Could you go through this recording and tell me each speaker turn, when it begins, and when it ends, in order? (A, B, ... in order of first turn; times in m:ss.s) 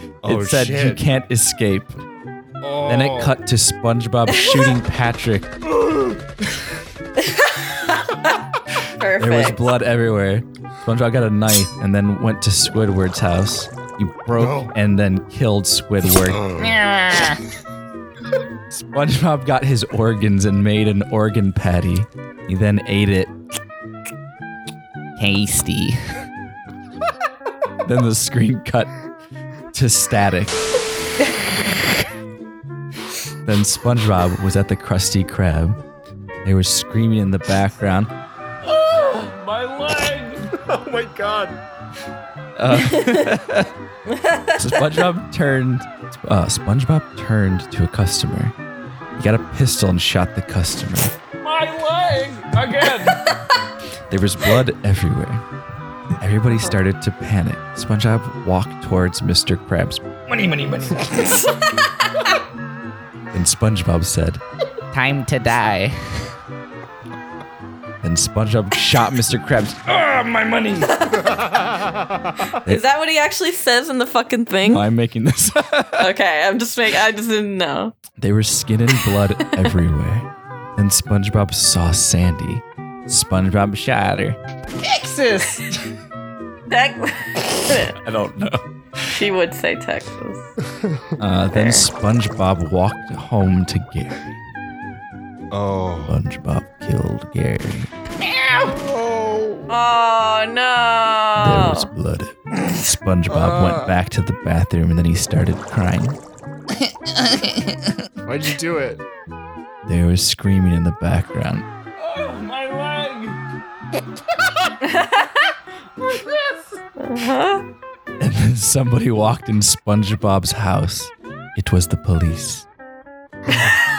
0:00.2-0:01.0 A
0:00.2-0:02.0 B
0:02.6-0:03.3 A
0:02.8-0:05.6 B
0:07.2-0:08.3 C
0:09.0-0:09.6 C
0:09.2-0:17.4 B
0:14.4-0:14.7 A
0:16.2-0:16.8 A
0:18.7-0:23.3 B
0:25.2-0:26.0 B
0:27.8-0:28.9 B
0:29.7-0:30.6 B
0:33.4-0:35.8 B
0:36.4-0:38.1 B
0:39.0-0:40.3 B
0:40.5-0:41.6 A
0:42.6-0:43.7 B
0:44.1-0:45.0 C
0:44.6-0:48.5 B
0:49.2-0:53.2 B
0:52.9-0:53.4 C
0:54.1-0:55.4 B
0:56.2-1:01.1 B
1:01.2-1:02.1 C
1:03.3-1:04.4 B
1:04.9-1:06.2 B
1:08.0-1:10.9 B
1:10.9-1:11.3 C
1:11.2-1:12.4 A
1:12.6-1:14.9 C
1:14.7-1:16.1 B
1:16.0-1:17.9 C
1:18.2-1:25.8 B
1:26.7-1:27.9 C
1:27.8-1:29.2 B
1:29.1-1:30.5 C
1:31.2-1:34.3 B
1:31.5-1:31.8 C
1:35.5-1:36.2 A
1:36.1-1:37.9 B
1:38.6-1:39.7 A
1:39.7-1:41.9 C
1:41.4-1:46.2 B
1:43.3-1:43.9 A
1:46.8-1:47.9 B
1:48.2-1:49.0 A
1:49.8-1:53.3 B
1:54.8-1:55.5 C
1:57.0-1:57.6 C
1:58.2-2:02.6 B